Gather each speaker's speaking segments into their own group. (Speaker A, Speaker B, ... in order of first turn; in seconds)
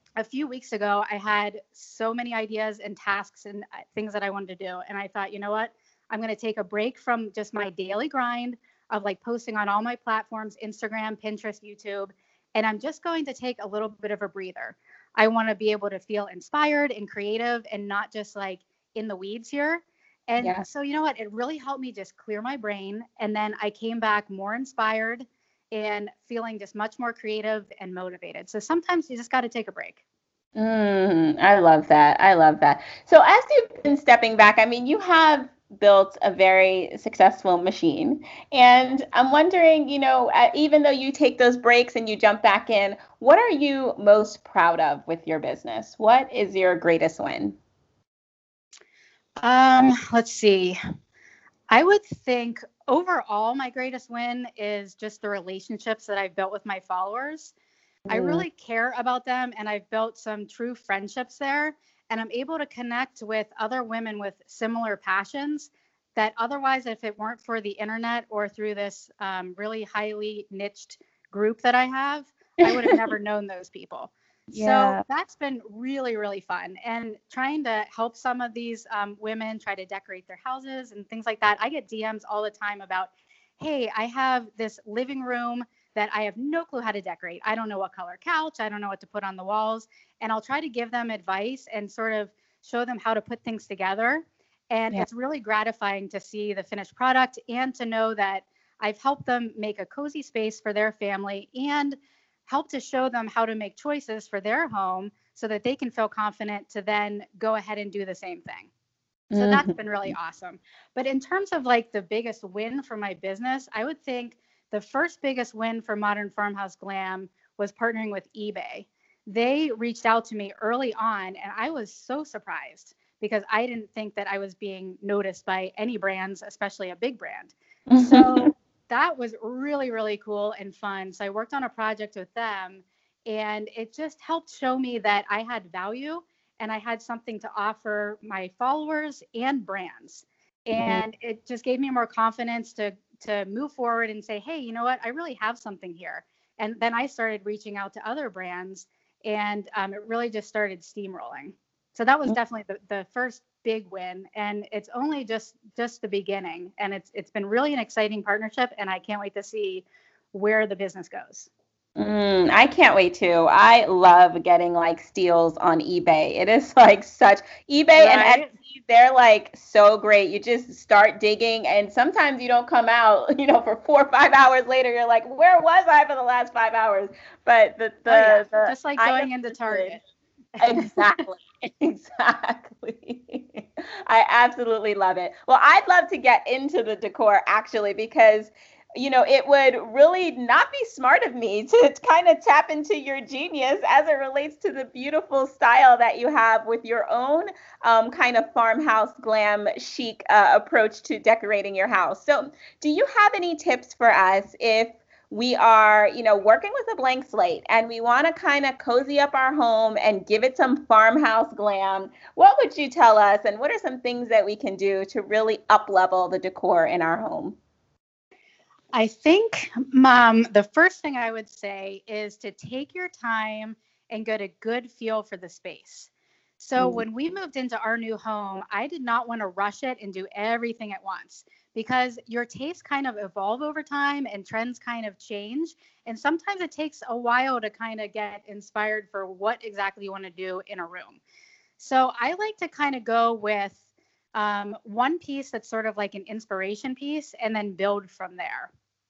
Speaker A: 0.2-30.0, 49.4-50.8, 51.7-57.5, 58.1-108.7, 109.3-161.5, 168.0-168.5, 178.1-180.0, 180.6-181.1, 218.9-241.2, 241.8-243.8, 244.3-248.7
Speaker B: 20.4-20.6, 30.6-47.6, 58.1-58.5, 72.6-73.0, 74.5-75.0, 109.3-110.1, 127.9-128.5, 140.8-141.0, 162.0-180.0, 180.6-217.6, 226.8-227.0